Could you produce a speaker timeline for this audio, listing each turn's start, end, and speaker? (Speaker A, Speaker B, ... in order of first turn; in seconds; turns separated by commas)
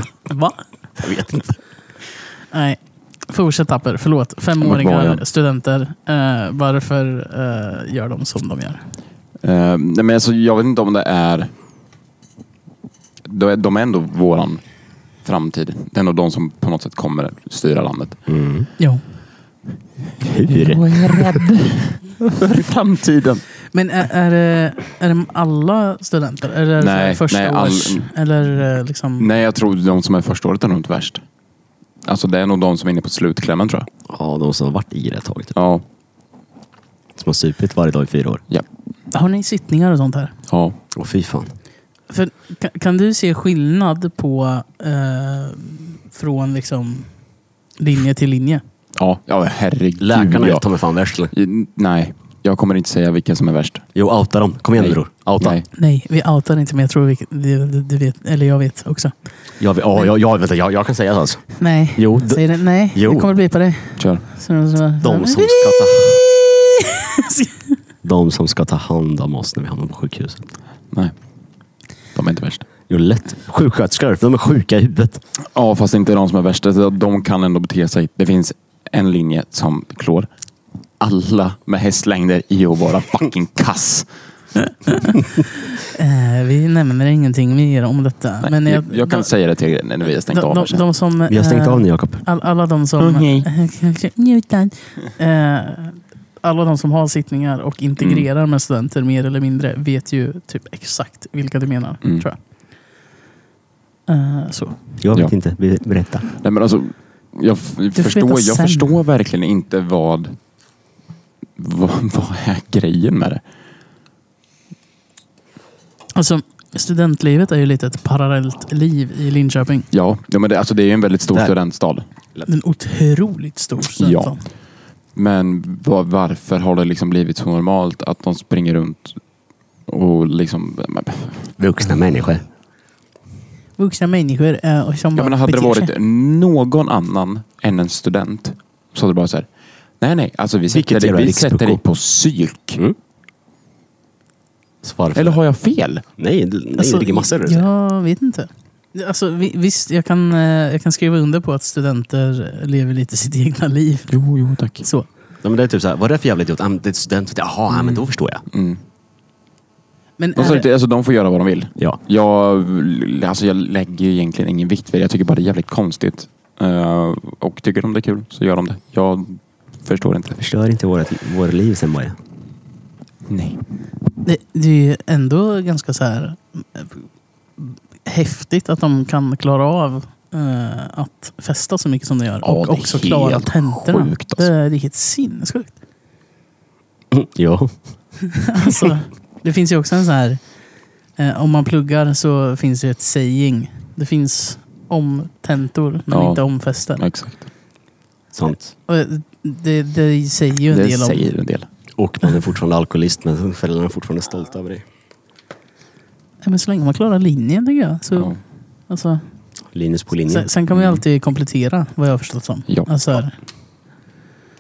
Speaker A: 0.3-0.6, Speaker B: 1.0-1.6, Speaker A: 2.5-8.8, Speaker C: 4.6-5.2, Speaker C: 9.4-11.5, Speaker C: 13.2-14.6, Speaker C: 15.2-18.2, Speaker B: 18.3-18.7, Speaker B: 20.2-21.4, Speaker C: 20.5-23.4, Speaker A: 23.7-29.3, Speaker C: 26.8-28.1, Speaker C: 29.2-31.2, Speaker C: 32.0-33.9, Speaker B: 34.1-35.6, Speaker C: 35.5-35.8, Speaker B: 37.1-38.4, Speaker A: 39.1-40.3, Speaker C: 40.5-40.8, Speaker B: 40.9-41.5, Speaker A: 42.1-47.1, Speaker A: 47.8-48.6, Speaker C: 49.0-50.6, Speaker B: 50.0-51.3, Speaker C: 51.3-53.9, Speaker B: 54.0-55.6, Speaker C: 54.8-55.7, Speaker A: 55.7-59.1, Speaker B: 59.6-63.3, Speaker A: 61.6-67.5, Speaker C: 64.0-64.2, Speaker B: 65.0-66.2, Speaker B: 68.0-70.5, Speaker C: 72.2-72.7, Speaker B: 72.9-75.2, Speaker C: 75.5-80.3, Speaker C: 81.0-84.1, Speaker A: 84.7-85.2, Speaker A: 85.7-89.3, Speaker C: 88.4-90.8, Speaker A: 90.3-102.4, Speaker B: 91.3-92.2, Speaker C: 93.0-93.5, Speaker C: 98.0-98.3, Speaker A: 104.1-104.8, Speaker B: 105.0-106.3, Speaker C: 106.3-110.4, Speaker A: 108.0-108.9, Speaker C: 111.6-113.4, Speaker A: 116.2-119.9, Speaker C: 119.9-122.1, Speaker A: 122.5-124.4, Speaker C: 124.0-124.3, Speaker C: 125.2-129.2, Speaker C: 129.9-131.5, Speaker B: 131.6-132.5, Speaker A: 133.8-135.9, Speaker C: 135.2-139.5, Speaker C: 140.0-142.8, Speaker B: 140.7-141.8, Speaker B: 144.8-145.4, Speaker C: 145.2-146.0, Speaker B: 146.2-147.7, Speaker A: 146.8-154.1, Speaker C: 154.1-154.8, Speaker A: 154.8-155.1, Speaker B: 155.4-158.4, Speaker C: 158.5-158.8, Speaker A: 160.2-160.7, Speaker C: 160.4-170.4, Speaker B: 170.4-172.2, Speaker C: 173.3-173.6, Speaker A: 174.2-177.0, Speaker A: 177.6-185.7, Speaker C: 182.4-184.5, Speaker B: 187.1-187.8, Speaker A: 188.3-190.4, Speaker A: 191.2-197.0, Speaker C: 196.1-197.4, Speaker B: 198.3-198.7, Speaker A: 198.9-201.2, Speaker C: 200.7-201.7, Speaker B: 202.0-204.8, Speaker A: 206.4-208.4, Speaker A: 208.9-209.2, Speaker B: 209.7-210.5, Speaker A: 210.3-213.4, Speaker C: 210.7-211.0